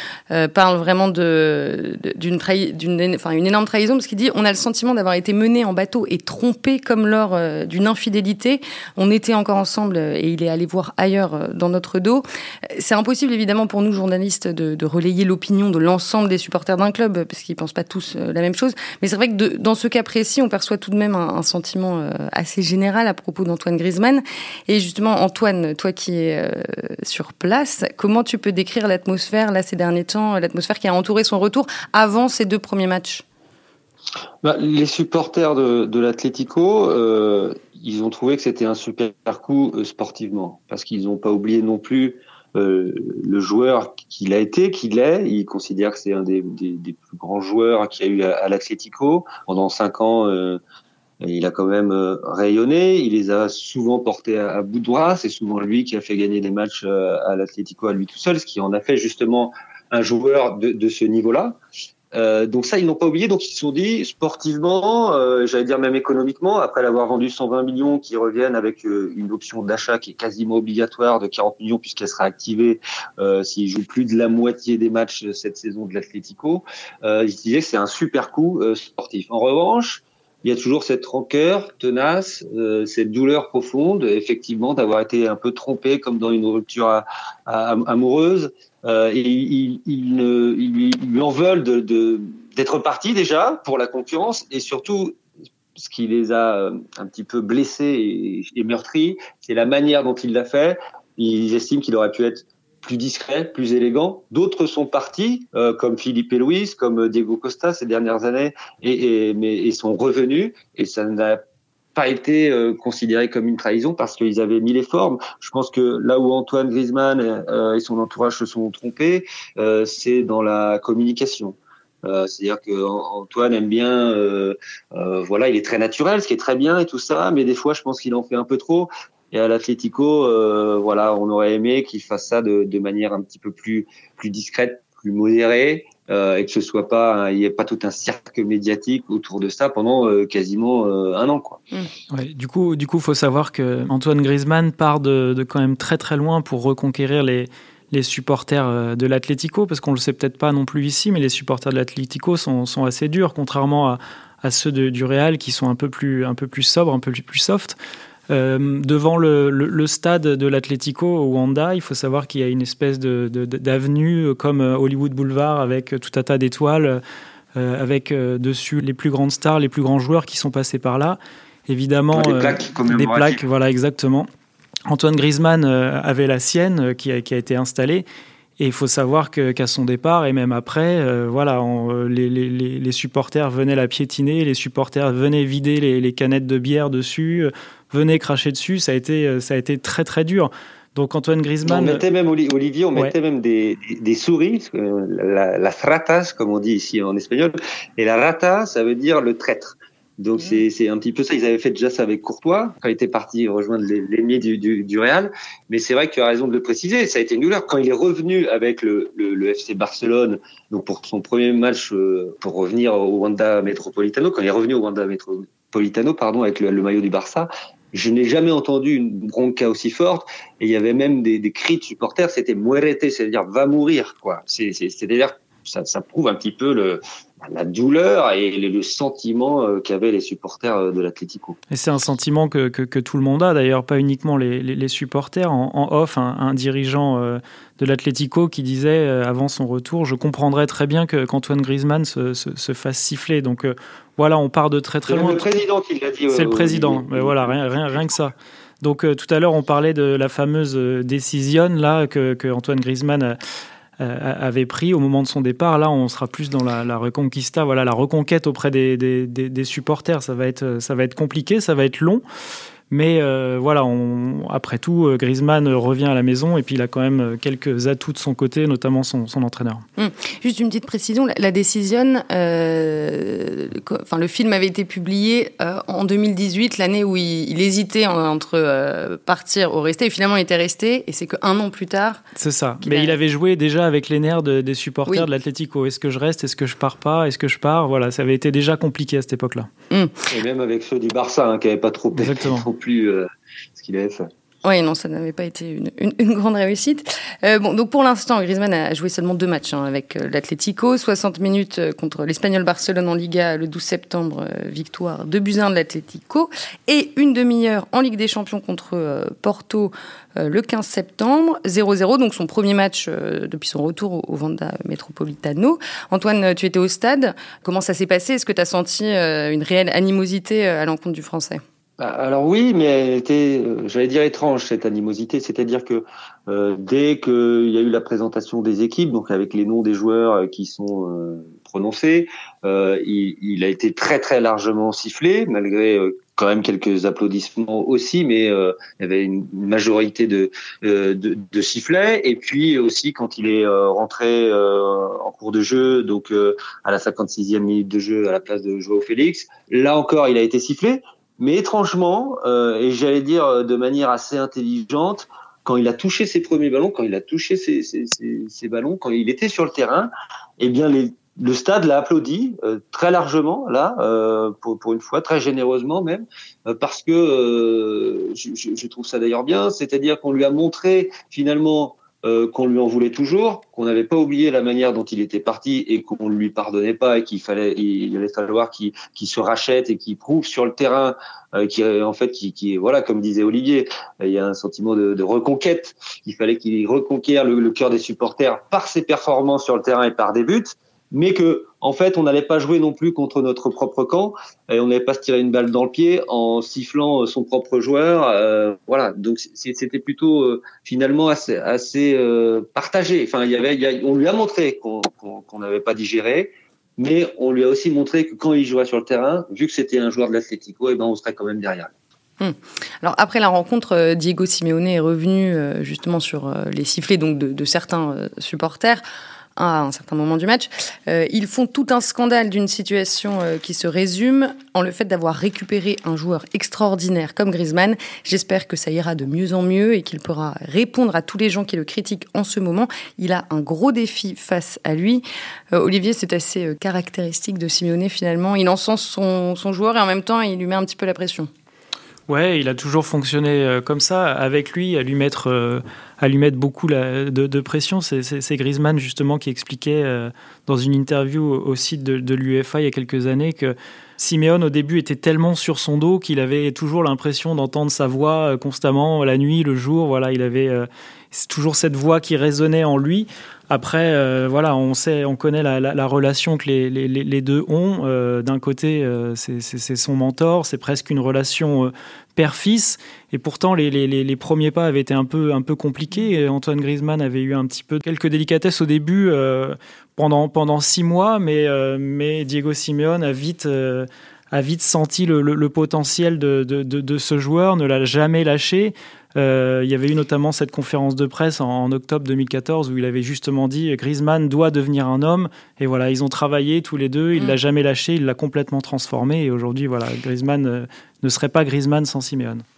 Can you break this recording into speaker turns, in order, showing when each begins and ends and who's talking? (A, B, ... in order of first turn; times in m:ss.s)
0:00.3-0:33.2 A
0:34.4-0:50.6 B
0:51.2-1:01.6 B
1:02.1-1:35.2 B
1:35.8-1:51.4 B
1:52.0-2:21.6 B
2:22.1-2:37.8 C
2:38.3-2:47.0 C
2:47.6-2:54.3 C
2:52.1-2:53.4 B
2:54.9-2:58.1 C
2:58.6-3:12.0 C
3:11.6-3:51.6 B
3:51.7-4:05.4 C
4:05.1-4:08.3 B
4:06.3-4:13.4 C
4:14.0-4:22.2 C
4:22.9-4:29.8 C
4:30.0-4:42.2 A
4:42.4-4:49.7 C
4:42.8-4:43.2 A
4:49.9-4:50.2 A
4:50.3-4:54.3 B
4:52.2-4:52.7 C
4:54.6-5:21.6 A
5:22.0-6:51.9 B
6:52.4-6:59.0 A
6:59.6-7:21.5 A
7:22.3-8:22.6 C